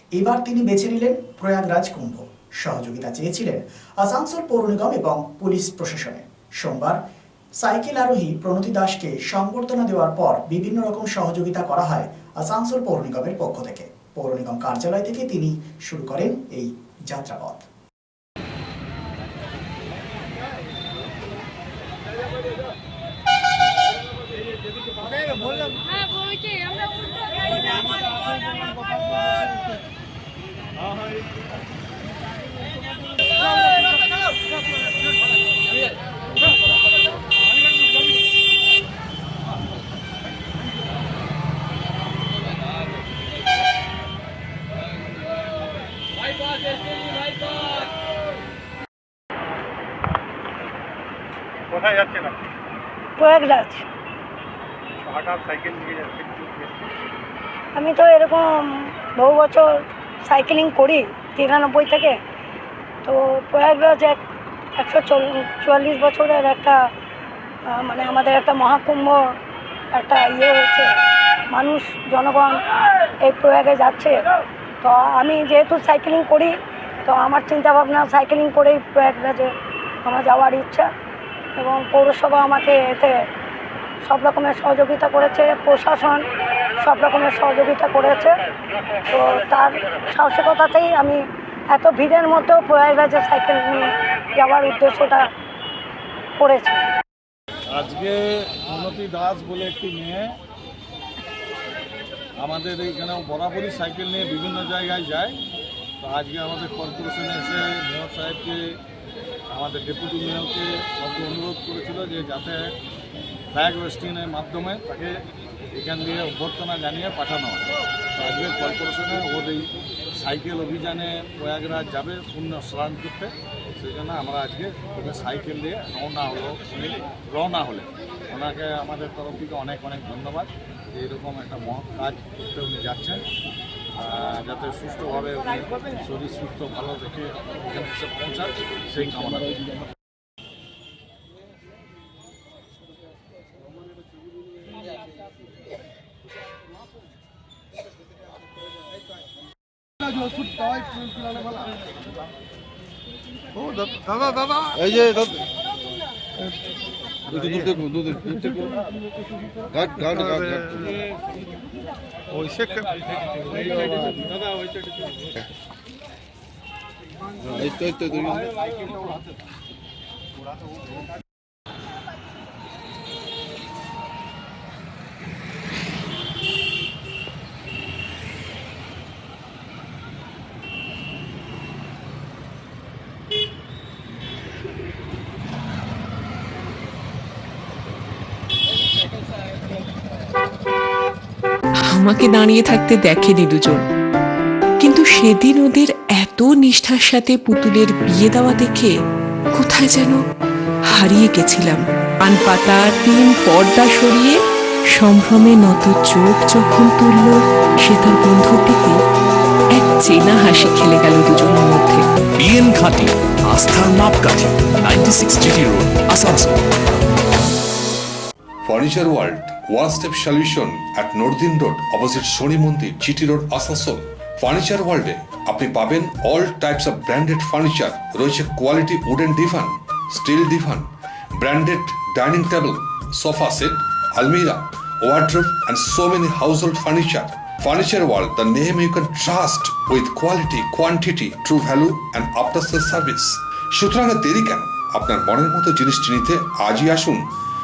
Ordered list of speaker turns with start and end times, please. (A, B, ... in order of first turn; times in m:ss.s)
0:00.2-0:07.0 A
0:07.6-0:17.6 A
0:51.7-0:52.4 B
0:53.2-0:53.8 C
0:55.0-0:56.8 B
0:57.7-1:02.2 C
1:03.0-1:04.2 C
1:04.8-1:06.8 C
1:07.7-1:09.3 C
1:09.9-1:10.9 C
1:11.5-1:12.6 C
1:13.2-1:14.2 C
1:14.8-1:19.5 C
1:20.0-1:20.9 C
1:21.6-1:23.2 C
1:24.0-1:26.2 C
1:26.8-1:28.4 C
1:29.1-1:35.3 C
1:36.4-1:36.8 C
1:37.7-1:40.4 D
1:42.4-1:45.4 D
1:46.0-1:48.8 D
1:49.5-1:52.8 D
1:53.5-1:55.2 D
1:55.7-2:06.7 D
2:07.3-2:13.2 D
2:14.0-2:19.6 D
2:34.7-2:35.4 E
2:37.3-2:38.7 E
2:39.7-2:40.9 E
2:43.7-2:44.2 E
2:47.5-2:48.5 E
3:11.9-3:13.8 F
3:14.8-3:18.9 F
3:19.6-3:20.2 F
3:20.9-3:24.4 F
3:25.0-3:29.0 F
3:29.8-3:32.0 F
3:32.4-3:36.6 G
3:38.6-4:07.2 H